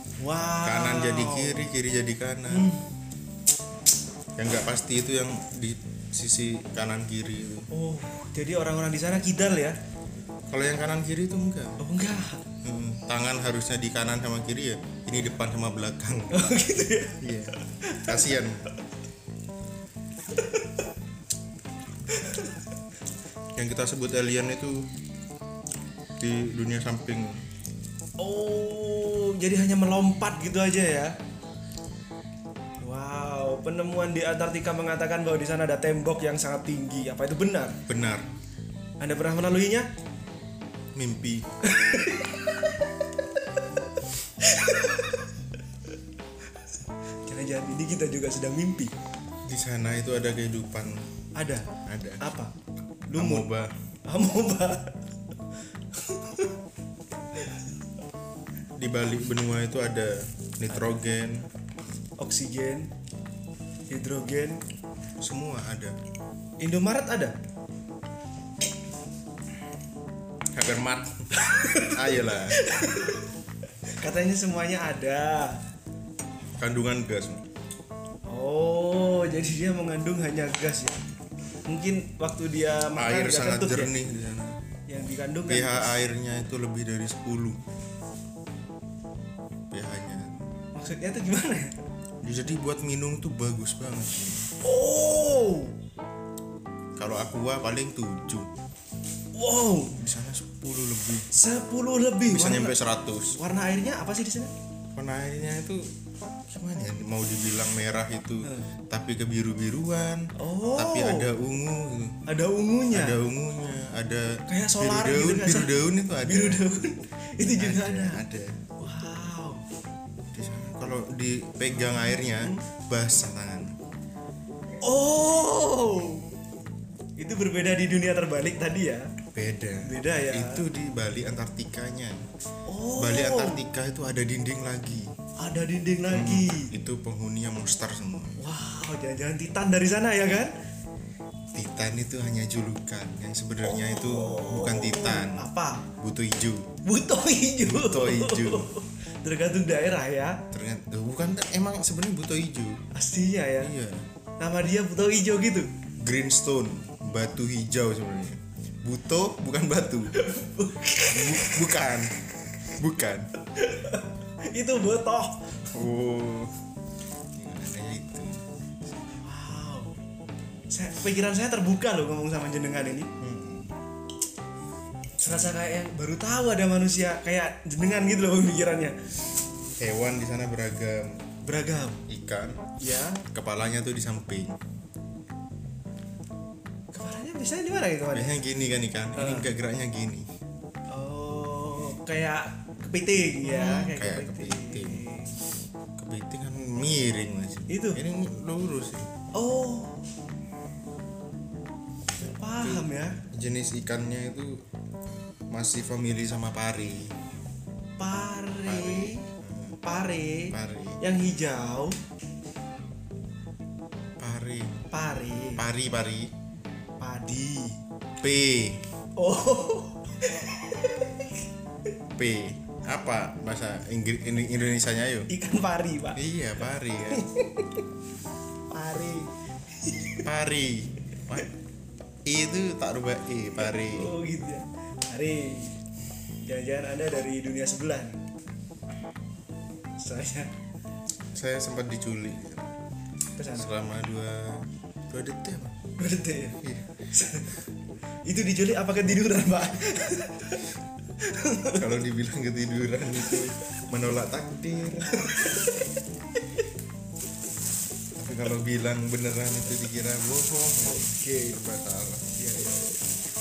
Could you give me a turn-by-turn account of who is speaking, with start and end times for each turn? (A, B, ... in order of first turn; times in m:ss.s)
0:00.2-0:01.7 A
0:00.6-0:02.7 B
0:02.5-0:02.8 A
0:04.4-0:07.7 B
0:07.7-0:09.8 A
0:10.5-0:11.8 B
0:11.8-0:12.4 A
0:12.6-0:16.3 B
0:16.3-0:18.4 A
0:17.2-0:18.6 B
0:20.3-0:20.8 A
0:22.1-0:22.5 A
0:23.6-0:24.9 B
0:26.2-0:27.3 B
0:28.2-0:31.1 A
0:32.8-0:37.8 A
0:37.9-0:38.3 B
0:39.0-0:39.9 A
0:41.0-0:41.5 B
0:41.6-0:42.8 A
0:44.4-0:45.3 A
0:47.3-0:48.9 A
0:49.5-0:51.0 B
0:51.4-0:52.5 A
0:51.9-0:52.2 B
0:53.1-0:53.5 A
0:53.1-0:53.7 B
0:54.1-0:55.0 A
0:56.0-0:56.5 A
0:58.8-1:01.5 B
1:02.2-1:02.9 A
1:03.9-1:04.6 A
1:05.2-1:06.0 B
1:06.6-1:07.4 A
1:10.5-1:11.1 B
1:11.4-1:13.3 A
1:11.8-1:12.6 B
1:14.0-1:15.6 A
1:16.6-1:17.4 B
1:18.3-1:21.0 A
1:21.7-1:24.0 A
1:23.0-1:24.6 B
1:24.9-1:26.0 A
1:25.5-1:27.6 B
1:29.7-1:30.3 B
1:30.8-1:31.7 A
1:32.2-1:34.5 B
1:34.6-1:35.8 A
1:37.0-1:38.5 B
1:39.3-1:39.9 A
1:40.0-1:41.3 B
1:41.3-1:44.5 A
1:42.3-1:43.4 B
1:45.0-1:45.8 B
1:46.5-1:52.2 B
1:48.4-1:48.7 A
1:50.4-1:51.3 A
1:52.3-1:53.2 A
1:52.9-1:56.6 B
1:54.5-1:58.2 A
1:57.4-1:58.6 B
1:58.8-1:59.6 A
2:00.3-2:03.8 B
2:04.8-2:06.2 A
2:07.2-2:09.0 A
2:09.3-2:12.2 B
2:09.8-2:10.6 A
2:12.7-2:13.6 A
2:13.0-2:15.1 B
2:15.4-2:16.7 A
2:16.1-2:18.4 B
2:18.4-2:20.5 A
2:21.5-2:25.5 B
2:23.6-2:25.8 A
2:26.0-2:26.7 B
2:26.8-2:30.4 A
2:27.6-2:28.7 B
2:30.5-2:32.8 B
2:33.0-2:33.7 A
2:33.6-2:34.0 B
2:34.4-2:35.7 A
2:36.0-2:40.1 B
2:40.2-2:41.5 A
2:41.1-2:42.2 B
2:42.7-2:43.3 B
2:43.6-2:45.4 A
2:45.7-2:46.5 B
2:47.3-2:48.4 B
2:49.2-2:50.0 A
2:50.7-2:53.1 A
2:53.2-2:53.7 B
2:55.2-2:59.0 A
2:59.8-3:01.2 B
3:01.4-3:02.0 A
3:02.1-3:02.7 B
3:02.8-3:03.2 A
3:03.3-3:04.6 B
3:06.9-3:08.4 A
3:08.1-3:10.3 B
3:09.2-3:09.5 A
3:10.9-3:15.4 A
3:13.4-3:15.0 B
3:16.0-3:19.1 B
3:17.7-3:18.0 A
3:19.3-3:20.0 A
3:22.2-3:23.2 A
3:22.6-3:24.6 B
3:25.5-3:27.2 B
3:28.0-3:29.2 A
3:28.7-3:29.8 B
3:29.8-3:32.0 A
3:30.5-3:31.0 B
3:34.2-3:34.8 B
3:34.9-3:35.6 A
3:35.6-3:36.3 B
3:37.0-3:37.8 A
3:38.2-3:38.8 B
3:39.2-3:41.4 A
3:42.2-3:45.3 B
3:45.3-3:46.2 A
3:46.2-3:47.3 B
3:47.1-3:47.8 A
3:48.7-3:50.3 A
3:50.2-3:51.5 B
3:52.3-3:54.1 B
3:53.6-3:55.8 A
3:56.4-3:58.2 A
4:00.0-4:00.5 A
4:01.3-4:02.7 B
4:03.4-4:03.7 A
4:03.5-4:05.8 B
4:06.0-4:07.5 A
4:06.6-4:06.9 B
4:08.2-4:10.6 A
4:11.2-4:11.9 A
4:11.8-4:15.3 B
4:13.2-4:13.5 A
4:15.2-4:15.6 A
4:18.2-4:22.3 B
4:20.8-4:21.6 A
4:22.4-4:23.0 A